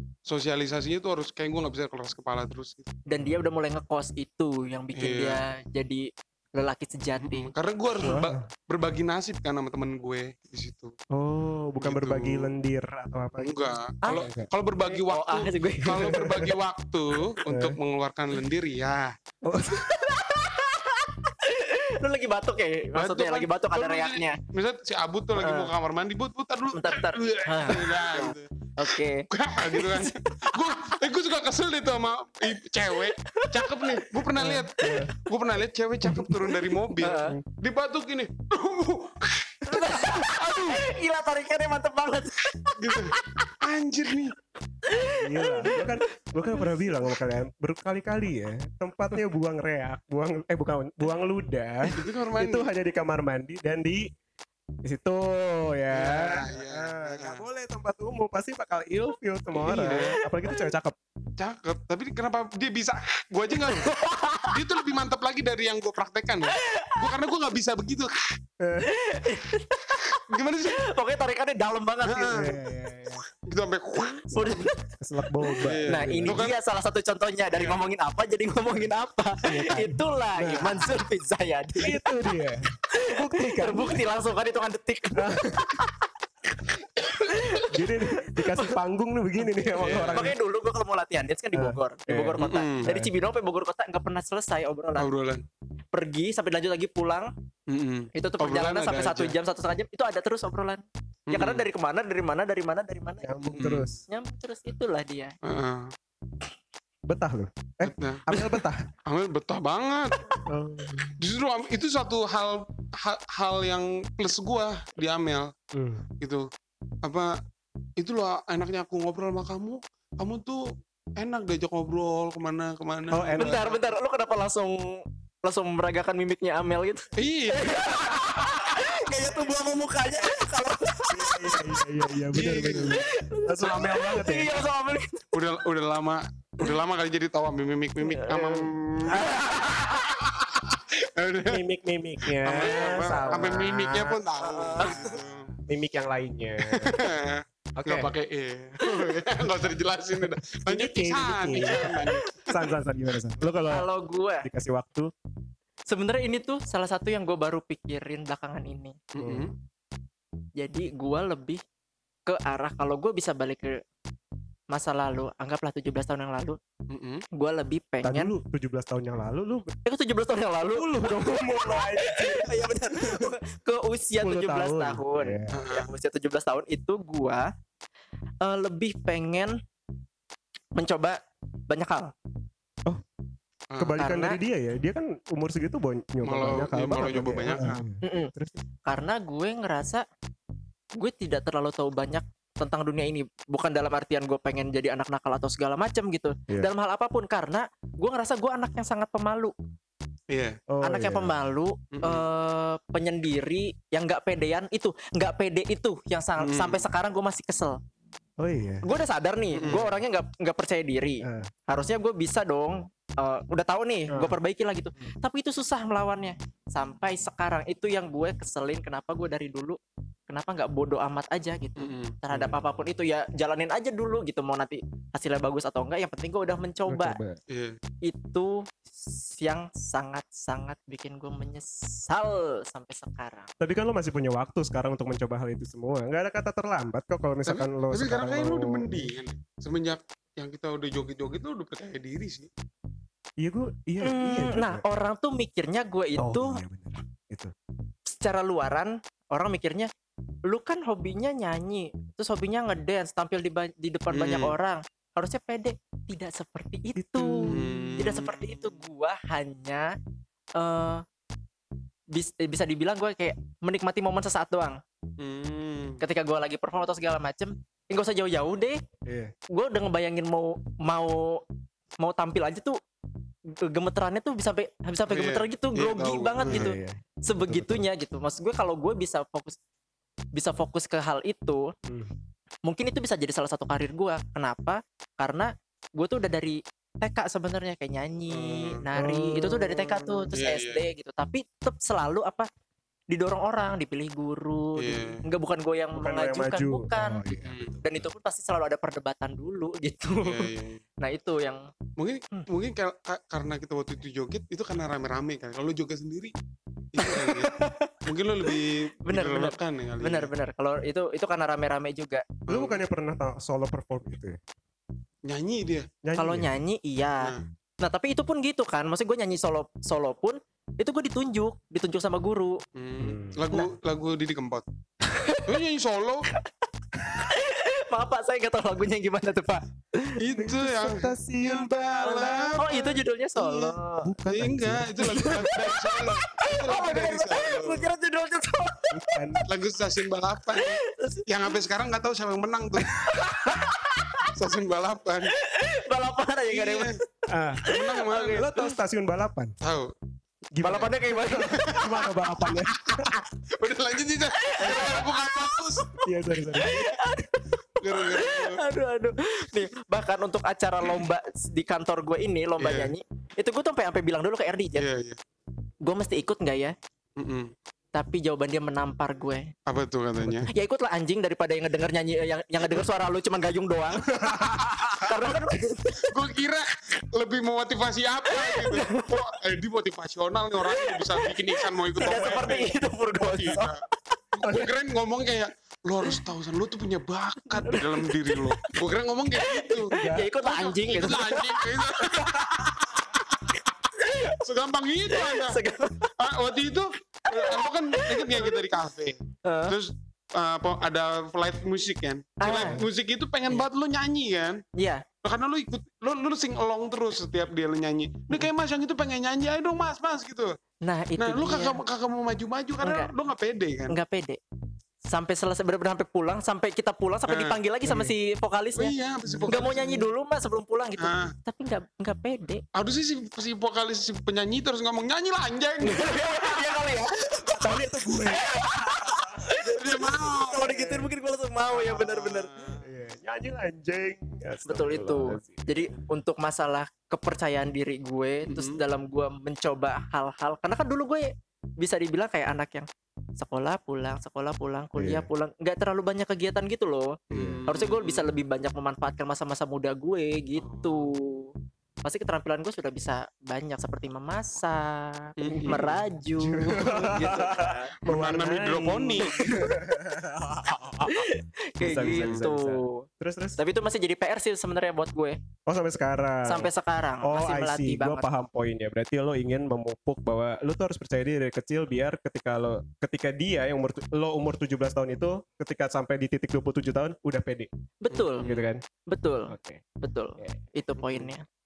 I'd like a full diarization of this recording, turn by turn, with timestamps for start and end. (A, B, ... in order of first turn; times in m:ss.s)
0:00.3-0:02.9 A
0:03.1-0:07.5 B
0:03.1-0:03.4 C
0:05.0-0:05.4 A
0:07.2-0:10.9 A
0:08.0-0:08.5 C
0:11.1-0:14.5 C
0:11.8-0:12.5 A
0:13.4-0:19.1 A
0:14.9-0:16.2 B
0:15.9-0:16.5 C
0:17.4-0:17.8 C
0:19.4-0:20.2 C
0:19.9-0:24.4 B
0:23.0-0:28.5 A
0:25.4-0:25.7 B
0:26.7-0:30.6 B
0:29.3-0:40.8 A
0:33.1-0:35.1 B
0:34.8-0:35.1 C
0:36.0-0:37.4 C
0:37.0-0:37.4 B
0:39.6-0:43.4 B
0:42.8-0:44.3 A
0:44.8-0:46.6 B
0:45.1-0:54.1 C
0:51.9-0:52.7 A
0:54.8-1:01.0 C
0:55.9-0:57.4 A
0:59.6-1:00.2 A
0:59.8-1:00.7 B
1:01.4-1:08.1 A
1:03.6-1:04.6 B
1:06.5-1:07.0 B
1:08.6-1:08.9 C
1:08.8-1:12.4 B
1:10.1-1:10.8 A
1:12.1-1:12.5 A
1:12.2-1:13.2 C
1:13.4-1:14.7 A
1:14.0-1:14.8 B
1:15.0-1:16.5 C
1:15.6-1:16.5 A
1:15.9-1:22.0 B
1:17.5-1:17.8 A
1:19.4-1:20.9 C
1:21.8-1:24.0 C
1:22.9-1:26.1 B
1:25.2-1:25.8 C
1:26.6-1:28.8 B
1:27.7-1:30.4 C
1:29.7-1:30.3 A
1:30.1-1:35.1 B
1:31.5-1:33.1 C
1:32.4-1:32.9 A
1:35.0-1:35.4 A
1:35.9-1:37.3 B
1:37.7-1:39.4 A
1:38.1-1:45.3 B
1:41.3-1:41.7 A
1:43.2-1:44.0 C
1:43.6-1:43.9 A
1:45.4-1:45.9 A
1:47.1-1:48.8 C
1:47.8-1:48.5 A
1:49.0-1:50.3 A
1:50.5-1:51.2 C
1:51.2-1:55.5 A
1:55.7-1:56.0 C
1:57.0-1:57.3 A
1:58.0-2:00.6 A
2:01.2-2:03.8 A
2:03.1-2:03.6 C
2:03.4-2:11.8 B
2:07.2-2:08.4 A
2:09.2-2:09.5 A
2:11.1-2:14.6 C
2:12.3-2:13.0 A
2:12.8-2:15.3 B
2:15.3-2:19.4 A
2:18.0-2:20.4 B
2:20.2-2:21.6 A
2:21.4-2:24.2 C
2:22.2-2:25.6 A
2:24.4-2:25.2 B
2:25.6-2:27.0 C
2:26.6-2:32.7 A
2:27.8-2:28.1 C
2:28.8-2:29.1 B
2:30.6-2:33.9 C
2:33.7-2:34.5 B
2:34.4-2:35.1 C
2:35.9-2:39.0 B
2:39.1-2:39.5 A
2:39.2-2:39.5 C
2:40.6-2:41.6 B
2:42.3-2:43.8 B
2:44.7-2:46.6 B
2:46.9-2:47.2 A
2:47.3-2:48.3 B
2:48.0-2:49.7 C
2:49.8-2:57.5 B
2:50.7-2:53.3 C
2:54.2-2:55.7 C
2:55.5-2:55.9 A
2:58.4-2:59.6 B
3:00.7-3:02.1 B
3:03.7-3:04.0 A
3:03.8-3:08.6 C
3:04.0-3:04.4 B
3:06.2-3:07.8 A
3:08.0-3:08.3 B
3:08.8-3:10.0 B
3:11.0-3:19.5 B
3:20.3-3:20.6 A
3:20.7-3:21.4 C
3:20.8-3:27.8 B
3:21.9-3:22.2 A
3:26.4-3:26.9 A
3:28.4-3:28.8 C
3:28.8-3:39.8 B
3:29.5-3:29.9 A
3:31.2-3:31.5 C
3:40.3-3:47.2 B
3:41.8-3:42.2 A
3:42.3-3:42.9 C
3:46.9-3:47.4 C
3:47.5-3:47.8 A
3:48.0-3:53.5 B
3:53.6-3:59.1 C
3:57.4-4:02.5 A
4:03.4-4:04.8 C
4:04.0-4:06.6 B
4:06.2-4:07.5 C
4:08.1-4:09.9 B
4:10.5-4:17.4 B
4:14.1-4:14.5 A
4:17.0-4:18.0 C
4:17.5-4:18.8 A
4:18.0-4:19.9 B
4:20.6-4:21.0 B
4:22.1-4:24.8 B
4:25.2-4:26.0 A
4:26.0-4:28.8 B
4:29.0-4:29.3 C
4:29.5-4:31.4 B
4:32.0-4:32.8 B
4:33.6-4:39.6 B
4:35.1-4:36.7 A
4:36.4-4:37.8 C
4:40.3-4:41.7 B
4:41.9-4:42.1 C
4:42.6-4:52.5 B
4:48.3-4:48.8 A
4:49.0-4:49.8 C
4:50.0-4:50.8 A
4:53.1-5:00.5 B
4:54.8-4:55.2 A
4:56.0-4:58.1 C
4:57.4-4:57.8 A
5:00.2-5:00.8 A
5:01.0-5:01.6 B
5:02.0-5:06.3 A
5:06.9-5:10.3 A
5:07.0-5:08.0 B
5:09.0-5:12.3 B
5:12.5-5:12.8 A
5:12.5-5:14.4 C
5:15.2-5:15.9 A
5:16.0-5:16.5 C
5:16.2-5:22.6 B
5:22.8-5:24.6 A
5:23.0-5:23.4 C
5:25.0-5:25.5 B
5:25.4-5:26.3 A
5:27.0-5:30.2 B
5:30.2-5:32.7 A
5:30.3-5:32.9 C
5:32.0-5:34.1 B
5:33.4-5:33.7 A
5:34.0-5:35.3 C
5:34.3-5:37.9 A
5:35.0-5:39.4 B
5:38.9-5:39.4 C
5:39.4-5:42.9 A
5:40.5-5:41.3 B
5:43.0-5:43.6 C
5:43.0-5:44.3 B
5:44.2-5:45.3 A
5:45.3-5:47.0 B
5:46.5-5:46.9 A
5:47.3-5:47.7 C
5:47.6-5:48.4 B
5:47.6-5:48.7 A
5:48.3-5:49.5 C
5:49.6-5:49.9 A
5:50.5-5:53.2 C
5:50.6-5:52.1 B
5:51.6-5:55.9 A
5:54.4-5:57.3 B
5:56.0-5:56.9 C
5:56.5-5:56.8 A
5:57.8-5:58.6 A
5:57.9-6:04.9 B
6:02.6-6:02.9 A
6:04.8-6:05.2 A
6:05.8-6:06.7 B
6:07.2-6:07.5 A
6:07.9-6:09.5 B
6:09.7-6:10.5 A
6:10.2-6:10.5 C
6:10.5-6:16.1 B
6:14.1-6:15.0 C
6:16.0-6:23.8 A
6:18.3-6:19.1 B
6:20.7-6:23.7 B
6:24.4-6:33.6 A
6:27.5-6:28.7 B
6:29.4-6:31.7 B
6:30.0-6:30.3 C
6:33.5-6:34.4 B
6:34.4-6:35.6 A
6:35.1-6:36.1 B
6:36.2-6:44.6 A
6:37.3-6:38.6 B
6:39.4-6:39.7 B
6:42.4-6:42.8 B
6:42.6-6:42.8 C
6:44.8-6:45.0 B
6:45.2-6:50.6 A
6:50.8-6:51.8 B
6:51.2-6:54.0 A
6:52.8-6:53.1 B
6:53.9-6:54.4 B
6:55.1-6:58.9 B
6:57.3-6:57.6 A
6:57.8-6:58.1 C
6:58.8-7:00.0 A
6:59.3-7:00.0 C
6:59.5-7:02.6 B
7:01.0-7:01.3 A
7:02.7-7:06.6 A
7:05.8-7:12.5 B
7:07.6-7:09.3 C
7:09.6-7:11.1 A
7:11.7-7:12.8 A
7:12.8-7:15.9 C
7:14.7-7:22.9 B
7:18.5-7:18.8 A
7:23.4-7:27.1 B
7:25.0-7:25.3 C
7:27.3-7:28.3 A
7:27.3-7:27.7 C
7:27.7-7:31.5 B
7:30.6-7:31.1 A
7:32.0-7:37.9 B
7:35.4-7:36.0 A
7:35.4-7:43.6 C
7:38.0-7:39.5 A
7:41.0-7:43.0 B
7:41.9-7:42.4 A
7:43.6-7:45.4 B
7:45.6-7:46.7 C
7:46.4-7:48.3 B
7:47.2-7:57.7 C
7:58.0-7:58.5 B
7:58.1-7:58.6 A
7:58.4-7:58.8 C
7:59.1-8:01.4 B
7:59.5-7:59.8 C
8:01.0-8:01.3 A